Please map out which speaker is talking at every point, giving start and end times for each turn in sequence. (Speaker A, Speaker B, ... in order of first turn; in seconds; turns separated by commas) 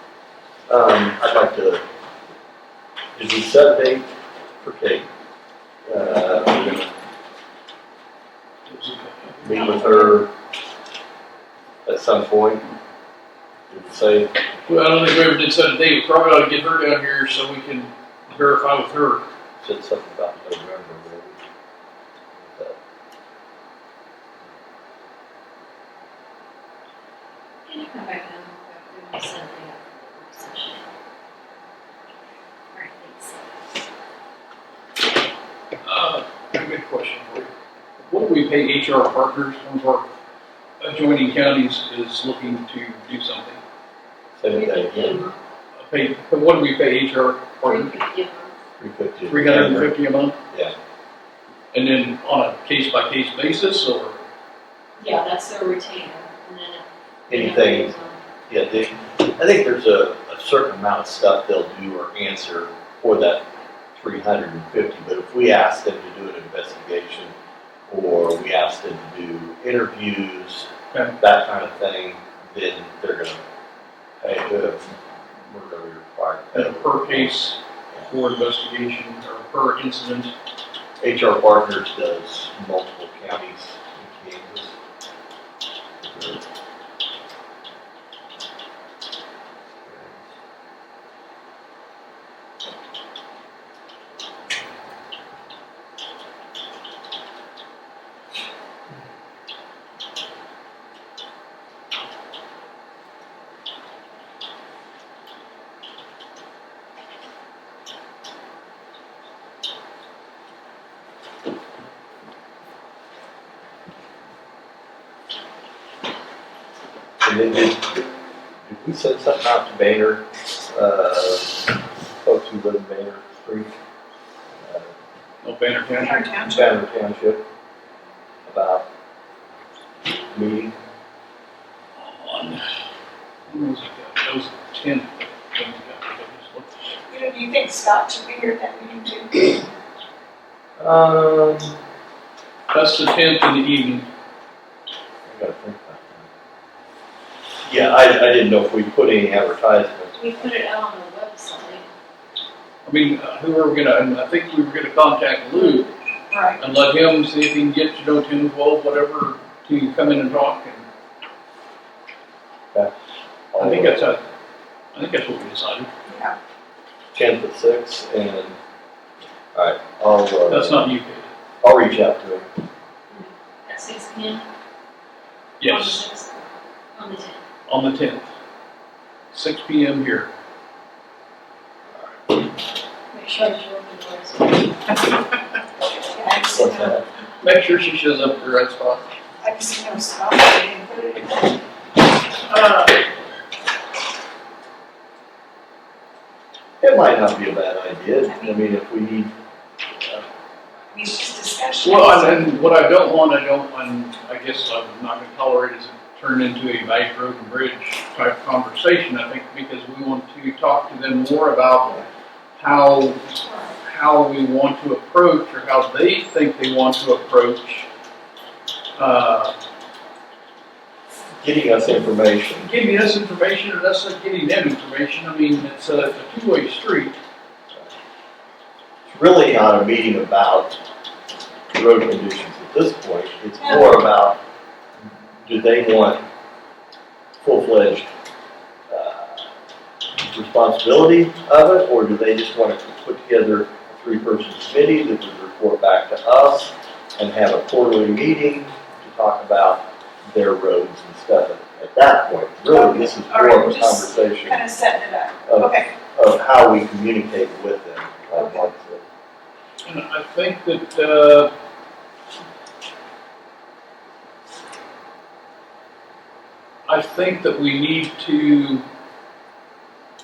Speaker A: 0.7-1.8, Speaker A: 3.1-4.1, Speaker A: 4.6-5.1, Speaker A: 5.8-6.9, Speaker B: 8.7-9.7, Speaker A: 9.4-10.3, Speaker A: 11.8-12.7, Speaker A: 13.7-14.4, Speaker B: 14.7-19.3, Speaker A: 19.6-21.4, Speaker A: 22.4-22.8, Speaker C: 27.6-30.9, Speaker C: 32.7-33.4, Speaker B: 35.8-37.5, Speaker B: 38.1-40.1, Speaker B: 40.8-43.6, Speaker A: 44.4-45.2, Speaker C: 44.5-45.4, Speaker B: 45.8-47.9, Speaker C: 47.6-48.5, Speaker A: 48.8-49.9, Speaker B: 49.3-50.4, Speaker B: 51.7-54.2, Speaker C: 55.0-58.2, Speaker A: 57.3-57.9, Speaker A: 58.5-67.3, Speaker A: 67.9-73.4, Speaker B: 70.9-71.2, Speaker A: 74.2-77.3, Speaker B: 76.5-80.3, Speaker A: 81.0-84.7, Speaker A: 86.0-86.4, Speaker A: 89.8-90.2, Speaker A: 117.2-118.0, Speaker A: 118.7-121.7, Speaker A: 122.2-123.7, Speaker A: 124.6-124.9, Speaker B: 125.4-126.3, Speaker D: 126.0-126.7, Speaker A: 126.4-127.4, Speaker A: 128.4-128.8, Speaker A: 130.3-130.7, Speaker B: 131.9-132.6, Speaker B: 133.5-137.0, Speaker D: 137.1-139.7, Speaker A: 140.8-141.8, Speaker B: 142.7-144.1, Speaker A: 145.2-146.3, Speaker A: 147.7-150.1, Speaker C: 150.1-151.9, Speaker B: 152.8-155.9, Speaker D: 156.3-156.6, Speaker B: 156.6-160.8, Speaker A: 163.5-164.1, Speaker B: 163.6-164.2, Speaker B: 164.9-165.9, Speaker D: 166.1-166.3, Speaker A: 167.1-168.6, Speaker A: 169.5-170.9, Speaker B: 170.5-171.3, Speaker A: 171.6-172.5, Speaker C: 173.1-174.4, Speaker B: 175.6-176.1, Speaker D: 175.6-176.5, Speaker C: 176.9-177.4, Speaker B: 177.7-178.3, Speaker B: 179.3-180.3, Speaker C: 183.1-185.0, Speaker D: 185.8-187.0, Speaker A: 186.5-187.0, Speaker B: 187.4-189.1, Speaker D: 189.4-191.6, Speaker B: 192.5-192.9, Speaker A: 196.8-199.3, Speaker D: 200.9-202.5, Speaker B: 201.8-217.9, Speaker B: 219.0-219.5, Speaker A: 221.4-222.7, Speaker B: 222.6-227.2, Speaker A: 229.1-230.8, Speaker A: 231.7-234.4, Speaker A: 235.4-236.2, Speaker A: 237.4-238.1, Speaker A: 238.9-239.5, Speaker A: 240.3-254.6, Speaker D: 252.7-255.9, Speaker A: 255.5-259.0, Speaker B: 259.8-261.5, Speaker B: 266.9-268.8